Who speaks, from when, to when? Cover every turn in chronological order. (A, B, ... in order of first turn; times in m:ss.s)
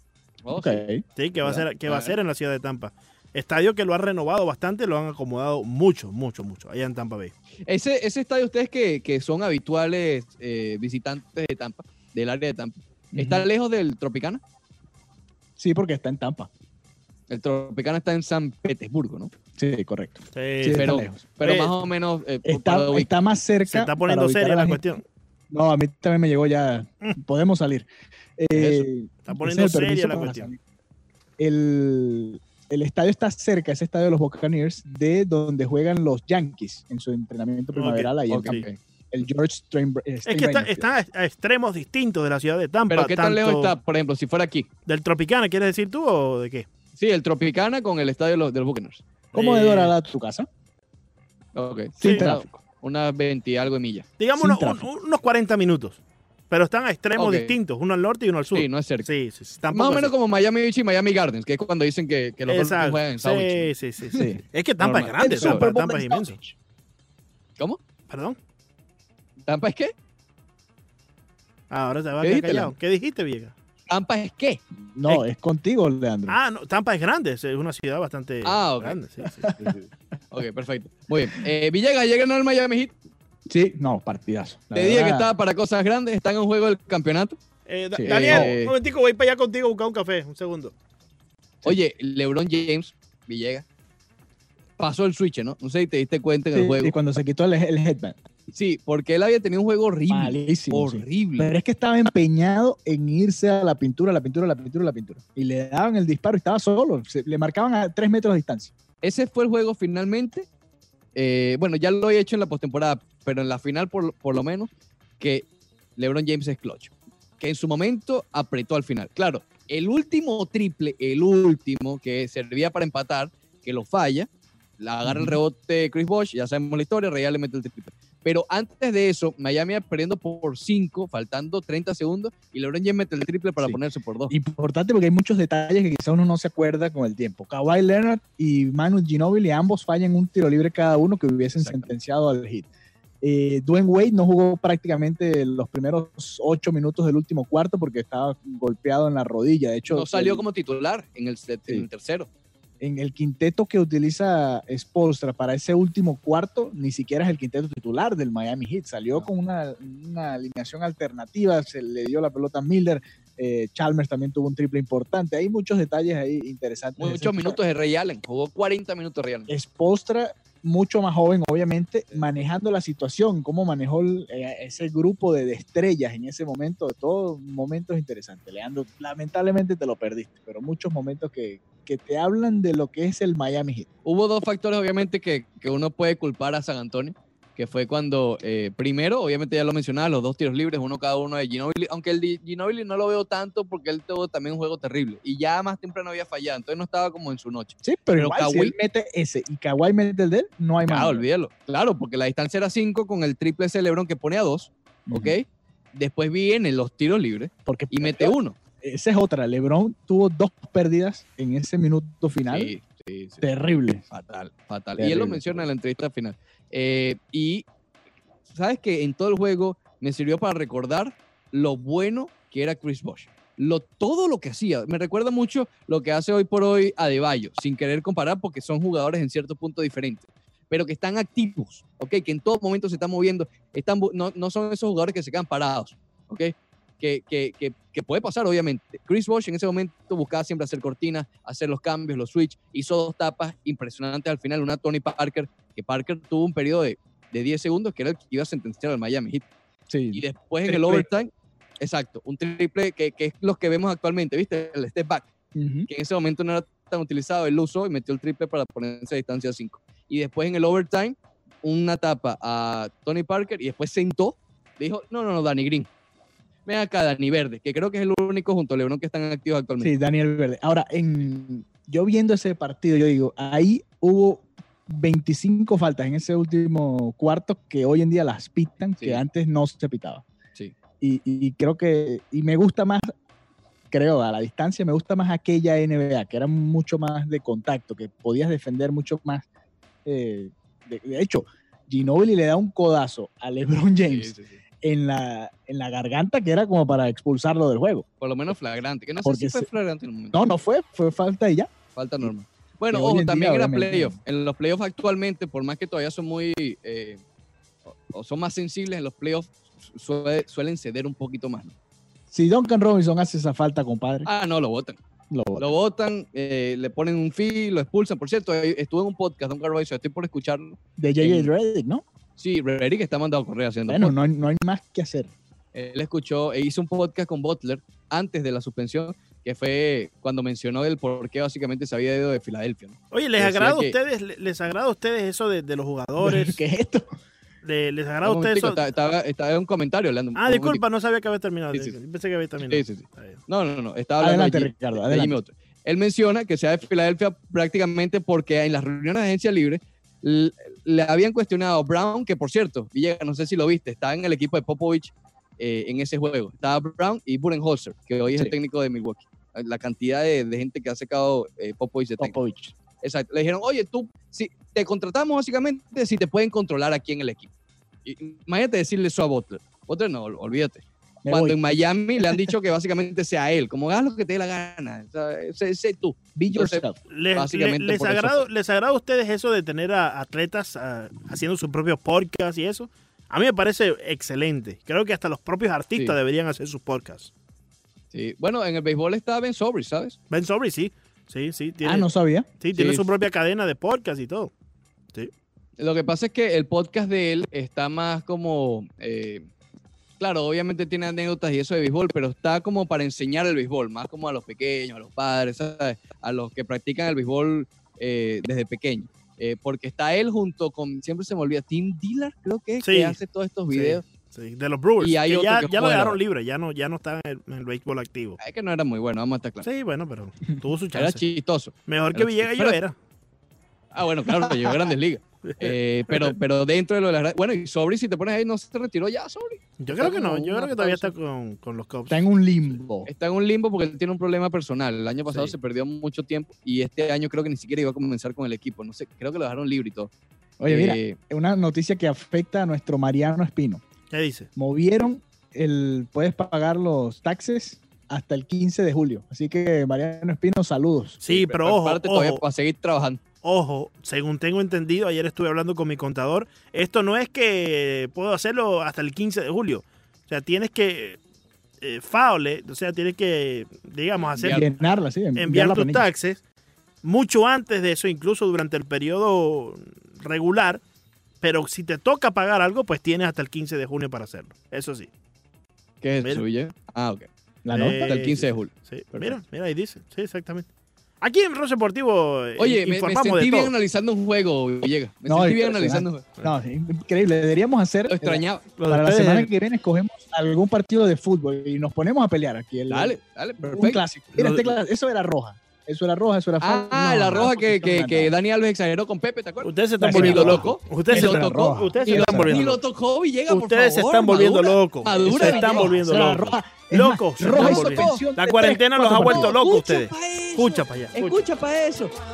0:00.4-0:00.8 A
0:00.5-0:01.6 B
0:01.2-0:07.3 C
0:01.8-0:02.2 A
0:07.7-0:14.4 A
0:13.1-0:13.5 B
0:15.6-0:16.5 B
0:17.3-0:19.3 A
0:19.6-0:21.2 B
0:20.3-0:21.7 C
0:20.7-0:23.1 A
0:22.4-0:24.8 B
0:23.7-0:25.0 C
0:25.5-0:27.9 B
0:28.4-0:30.6 B
0:28.5-0:28.8 A
0:29.2-0:30.5 C
0:31.4-0:40.9 B
0:37.7-0:38.6 C
0:38.3-0:38.8 A
0:40.2-0:43.8 C
0:42.9-0:44.7 A
0:44.8-0:46.6 C
0:47.0-0:49.0 A
0:49.3-0:50.5 B
0:49.3-0:49.9 C
0:51.5-0:54.1 A
0:52.0-0:52.6 B
0:54.2-0:56.0 C
0:54.4-0:54.8 B
0:56.5-1:00.1 C
0:57.2-0:57.6 A
0:58.5-0:59.1 A
0:59.7-1:03.7 A
1:02.5-1:06.4 C
1:04.1-1:04.4 B
1:04.8-1:05.7 A
1:05.2-1:06.5 B
1:08.1-1:08.4 C
1:09.4-1:09.9 A
1:11.7-1:13.5 C
1:12.2-1:12.7 A
1:13.9-1:14.6 A
1:15.0-1:16.4 B
1:16.3-1:19.5 C
1:18.4-1:19.0 A
1:19.2-1:19.7 B
1:19.6-1:22.9 A
1:23.5-1:25.3 B
1:24.7-1:27.4 A
1:27.7-1:30.7 C
1:27.9-1:28.6 B
1:28.1-1:28.7 A
1:31.6-1:33.6 A
1:34.8-1:37.0 A
1:36.5-1:38.2 B
1:38.5-1:41.5 A
1:40.1-1:48.7 B
1:49.0-1:50.5 A
1:51.1-2:14.3 A
2:05.0-2:05.4 B
2:13.6-2:22.7 B
2:21.6-2:21.9 A
2:23.2-2:30.4 B
2:29.9-2:32.3 A
2:32.8-2:47.6 B
2:47.0-2:49.5 A
2:49.5-3:03.9 B
2:52.1-2:52.5 A
3:04.0-3:18.7 A
3:17.8-3:21.2 B
3:20.8-3:28.6 A
3:25.1-3:25.4 B
3:27.6-3:32.7 B
3:32.5-3:33.4 A
3:33.4-3:34.0 B
3:34.1-3:37.7 A
3:35.0-3:35.6 B
3:38.5-4:09.4 A
4:09.9-4:11.0 B
4:10.1-4:15.3 A
4:15.6-4:15.9 B
4:15.9-4:25.9 A
4:26.6-4:29.9 A
4:29.8-4:40.2 B
4:41.0-4:43.1 B
4:43.9-4:49.4 B
4:50.0-4:58.0 B
4:54.1-4:54.6 A
4:58.2-5:00.4 A
4:59.2-4:59.7 B
5:00.3-5:01.7 B
5:01.9-5:07.2 A
5:02.9-5:04.2 B
5:08.1-5:11.7 A
5:12.3-5:14.3 B
5:14.2-5:15.0 A
5:15.3-5:15.7 B
5:15.6-5:21.5 A
5:21.0-5:22.0 B
5:22.4-5:24.1 A
5:23.9-5:25.3 B
5:25.7-5:34.0 A
5:33.1-5:36.6 C
5:36.2-5:37.1 B
5:37.6-5:38.8 C
5:38.2-5:40.8 A
5:40.4-5:43.4 C
5:41.7-5:42.0 A
5:42.6-6:02.4 A
5:44.2-5:45.4 B
6:02.2-6:02.7 B
6:03.0-6:07.5 A
6:08.0-6:18.4 A
6:11.2-6:11.6 B
6:16.4-6:17.0 B
6:17.1-6:27.3 C
6:28.1-6:30.2 A
6:30.3-6:32.1 C
6:31.8-6:32.5 B
6:32.6-6:34.5 C
6:32.7-6:33.0 A
6:35.8-6:39.5 A
6:40.2-6:54.0 A
6:52.8-6:53.2 C
6:53.7-6:58.4 C
6:55.0-6:56.2 A
6:58.4-6:59.7 A
6:59.6-7:01.2 C
7:00.9-7:02.8 A
7:01.9-7:02.9 C
7:03.9-7:11.1 A
7:05.4-7:06.3 C
7:09.8-7:12.8 C
7:12.1-7:13.1 B
7:13.0-7:20.1 A
7:15.3-7:15.5 C
7:20.6-7:23.8 B
7:20.7-7:21.2 A
7:24.1-7:24.5 C
7:24.6-7:31.2 B
7:31.2-7:32.4 C
7:31.2-7:33.2 A
7:33.4-7:41.2 C
7:41.8-7:44.7 C
7:44.4-7:44.7 A
7:44.4-7:46.0 B
7:45.4-7:46.4 C
7:47.0-7:50.8 C
7:51.4-7:55.1 C
7:56.0-7:57.3 A
7:57.6-7:58.2 B
7:57.7-8:00.6 C
7:57.9-7:59.4 A
8:01.2-8:03.7 C
8:02.6-8:06.3 A
8:05.3-8:18.3 B
8:08.1-8:08.6 A
8:08.8-8:09.5 C
8:12.9-8:14.8 A
8:16.6-8:25.9 A
8:19.6-8:22.8 C
8:20.0-8:22.6 B
8:23.5-8:31.4 C
8:25.2-8:29.5 B
8:27.5-8:28.2 A
8:29.2-8:32.1 A